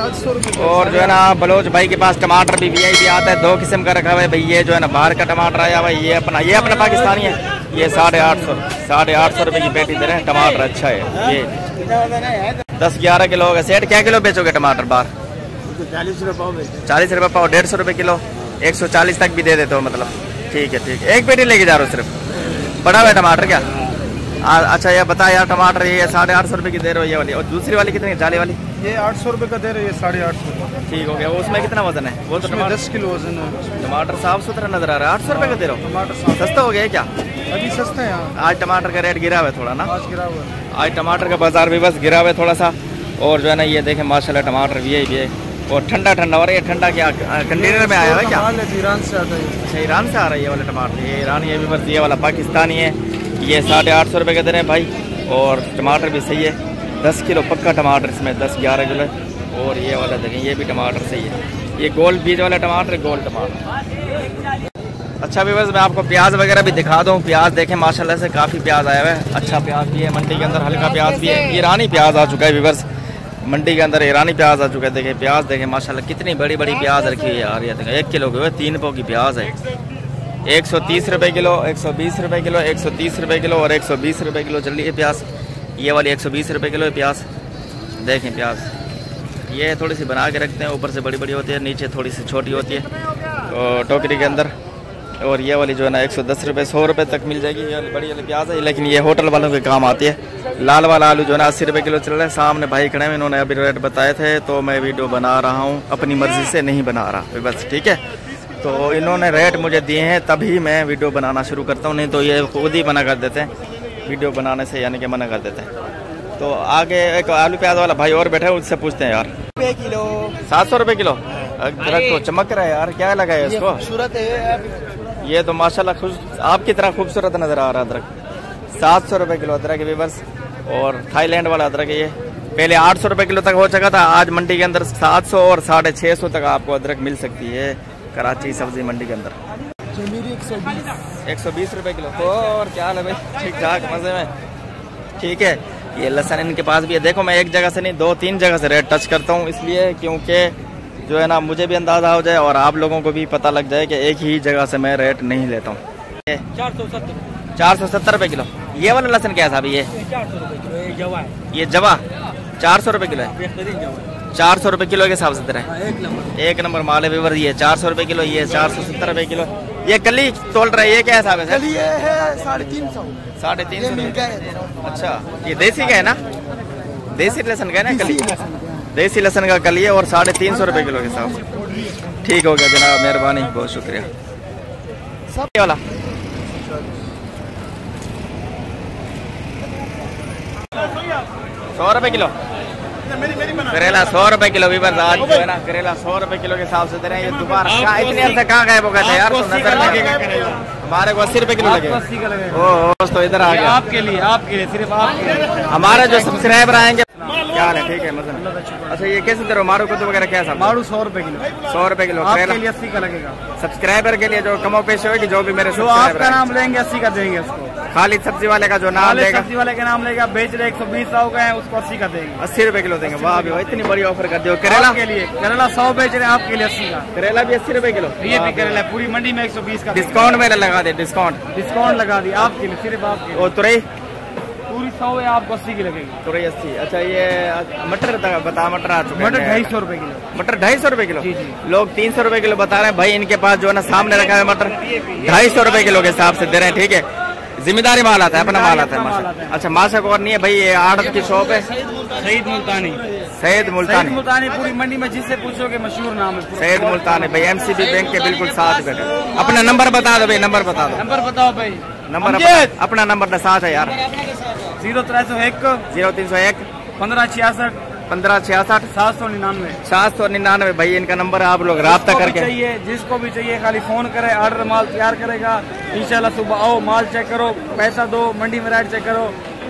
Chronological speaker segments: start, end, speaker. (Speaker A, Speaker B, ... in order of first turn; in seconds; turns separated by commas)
Speaker A: 0.5-11.5, Speaker A: 12.8-15.1, Speaker A: 16.8-22.1, Speaker A: 22.8-23.7, Speaker A: 24.4-28.6, Speaker B: 28.8-30.7, Speaker A: 30.9-32.9, Speaker B: 32.4-33.8, Speaker A: 33.8-37.1, Speaker B: 35.5-36.4, Speaker B: 37.5-38.3, Speaker A: 38.3-39.9, Speaker B: 39.9-40.5, Speaker A: 40.7-48.5, Speaker B: 47.6-49.6, Speaker A: 49.6-63.6, Speaker A: 65.2-72.8, Speaker A: 73.4-79.5, Speaker A: 80.5-85.2, Speaker A: 85.8-87.2, Speaker A: 88.0-88.7, Speaker A: 89.5-92.9, Speaker A: 93.5-94.5, Speaker A: 95.2-108.0, Speaker A: 108.6-113.5, Speaker A: 114.0-115.7, Speaker A: 116.4-119.3, Speaker A: 120.5-123.8, Speaker A: 125.2-128.1, Speaker A: 128.7-139.3, Speaker B: 140.0-140.8, Speaker A: 141.2-144.3, Speaker A: 145.2-156.4, Speaker A: 157.6-159.9, Speaker A: 161.5-162.0, Speaker A: 162.6-163.3, Speaker A: 164.3-165.7, Speaker A: 166.3-171.9, Speaker B: 172.0-172.9, Speaker A: 173.4-176.2, Speaker A: 177.1-181.4, Speaker A: 182.2-184.1, Speaker A: 185.4-185.8, Speaker A: 191.8-192.3, Speaker A: 193.6-203.8, Speaker B: 199.0-200.6, Speaker B: 201.6-202.8, Speaker B: 203.4-206.6, Speaker A: 205.7-210.8, Speaker B: 208.3-209.1, Speaker B: 210.5-211.5, Speaker A: 211.7-212.6, Speaker B: 212.2-213.4, Speaker A: 213.6-216.5, Speaker B: 215.7-217.7, Speaker A: 217.9-219.5, Speaker B: 218.9-222.4, Speaker A: 222.4-225.0, Speaker B: 223.1-223.8, Speaker B: 224.6-227.1, Speaker A: 227.1-228.8, Speaker B: 228.2-230.3, Speaker A: 229.9-231.4, Speaker B: 231.5-233.5, Speaker A: 233.3-233.8, Speaker B: 234.7-236.2, Speaker A: 236.2-239.7, Speaker B: 239.1-240.2, Speaker A: 240.3-247.0, Speaker B: 241.2-241.6, Speaker A: 247.6-251.7, Speaker B: 248.3-249.6, Speaker B: 252.1-253.0, Speaker A: 253.3-254.2, Speaker B: 253.8-258.0, Speaker A: 256.5-261.1, Speaker B: 260.9-262.7, Speaker A: 262.1-264.0, Speaker B: 264.8-265.8, Speaker A: 265.9-266.6, Speaker B: 267.0-267.8, Speaker A: 268.1-268.9, Speaker B: 268.9-269.8, Speaker A: 269.8-272.5, Speaker B: 271.8-279.4